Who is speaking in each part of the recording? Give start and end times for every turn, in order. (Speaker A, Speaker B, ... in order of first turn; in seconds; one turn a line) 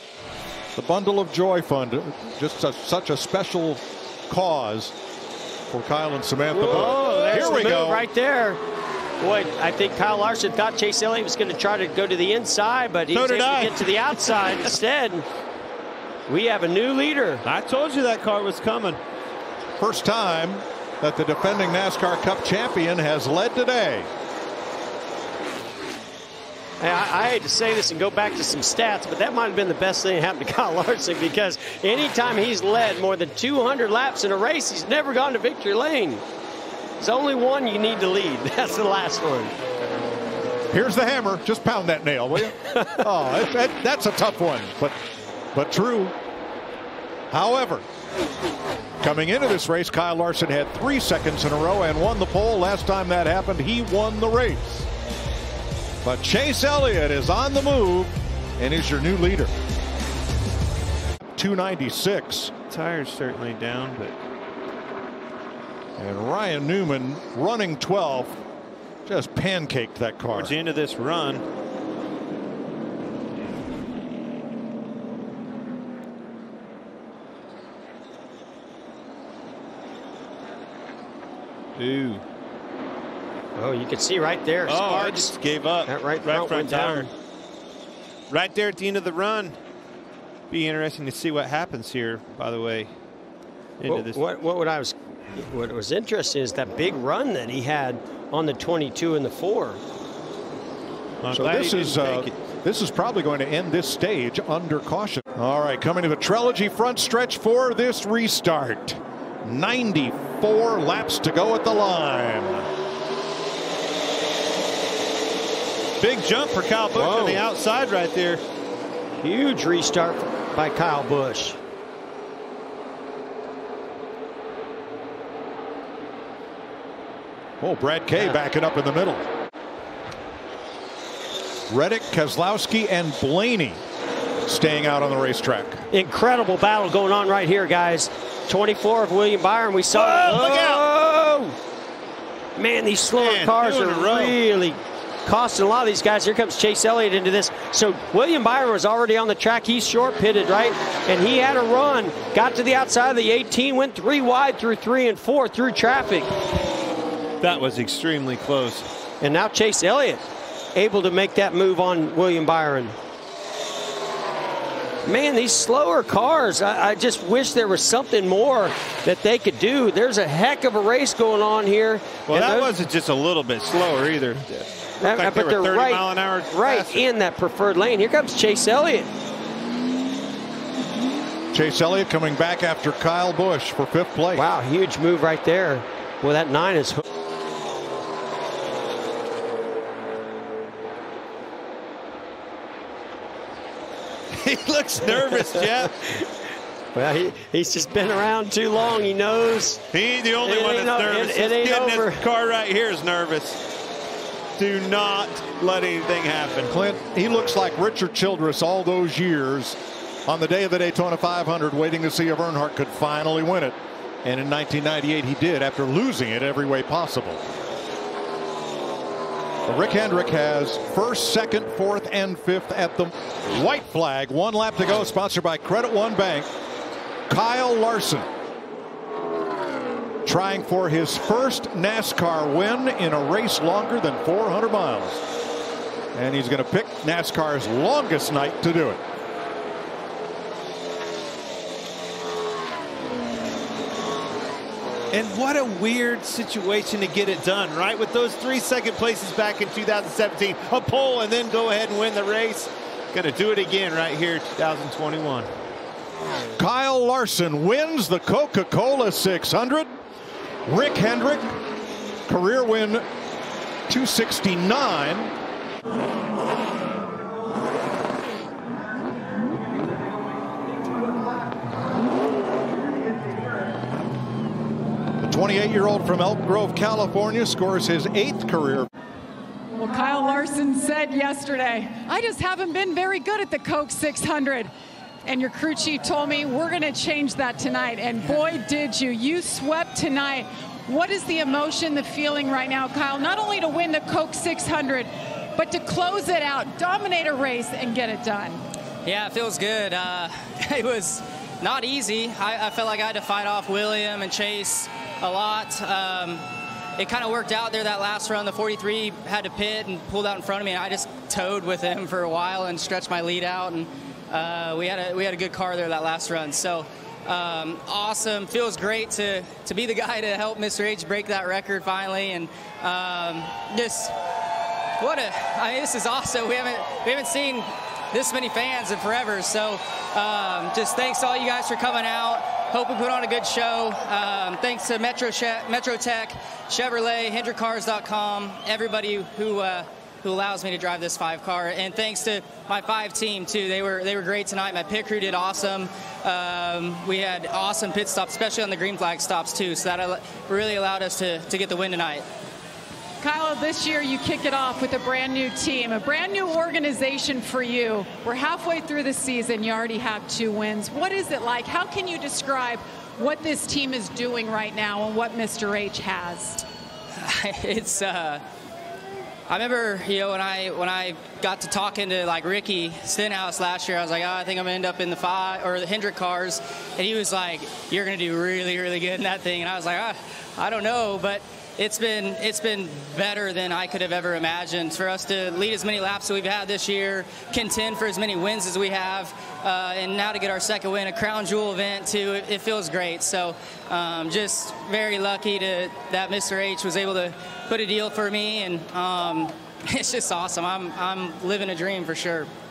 Speaker A: 0.8-4.9
Speaker A: 5.7-8.1
Speaker B: 6.5-8.6
Speaker C: 6.7-7.7
Speaker B: 9.2-15.3
Speaker C: 13.1-14.7
Speaker B: 16.3-17.4
Speaker C: 17.4-19.0
Speaker A: 19.8-24.1
Speaker B: 26.8-36.2
Speaker B: 37.0-39.5
Speaker A: 40.7-45.0
Speaker A: 45.5-46.1
Speaker A: 47.3-47.9
Speaker A: 49.0-54.9
Speaker A: 56.0-59.5
Speaker A: 61.3-62.5
Speaker C: 62.7-64.1
Speaker A: 66.0-68.4
Speaker A: 69.1-70.6
Speaker C: 70.3-71.5
Speaker C: 81.8-82.2
Speaker B: 83.6-85.3
Speaker C: 84.7-87.1
Speaker B: 85.9-87.1
Speaker C: 88.3-89.6
Speaker C: 90.5-92.9
Speaker C: 93.8-94.2
Speaker B: 93.9-99.8
Speaker C: 101.2-102.3
Speaker A: 101.3-112.7
Speaker C: 116.0-118.4
Speaker B: 117.0-117.4
Speaker B: 119.2-121.6
Speaker A: 127.6-129.3
Speaker A: 131.7-133.8
Speaker A: 134.4-135.8
Speaker B: 135.9-141.6
Speaker C: 139.9-140.9
Speaker B: 142.6-156.3
Speaker C: 143.1-144.4
Speaker C: 157.4-158.9
Speaker B: 159.2-162.9
Speaker B: 165.1-172.8
Speaker C: 172.3-177.1
Speaker B: 175.0-179.1
Speaker A: 181.5-184.4
Speaker B: 184.3-187.0
Speaker C: 194.3-195.9
Speaker B: 195.6-195.9
Speaker B: 196.9-199.8
Speaker C: 199.9-203.6
Speaker B: 200.4-202.2
Speaker C: 204.6-206.8
Speaker A: 206.7-217.4
Speaker A: 219.7-226.5
Speaker A: 227.3-228.3
Speaker A: 230.2-235.2
Speaker A: 236.2-239.0
Speaker C: 245.1-255.5
Speaker A: 256.6-259.9
Speaker A: 260.7-261.6
Speaker A: 262.3-263.1
Speaker A: 263.9-265.3
Speaker A: 275.2-278.9
Speaker D: 279.8-284.7
Speaker D: 285.2-298.6
Speaker E: 299.1-306.4
Speaker E: 307.0-324.1
Speaker E: 325.0-352.2
Speaker D: 353.2-366.6
Speaker E: 367.2-368.4
Speaker E: 369.5-402.5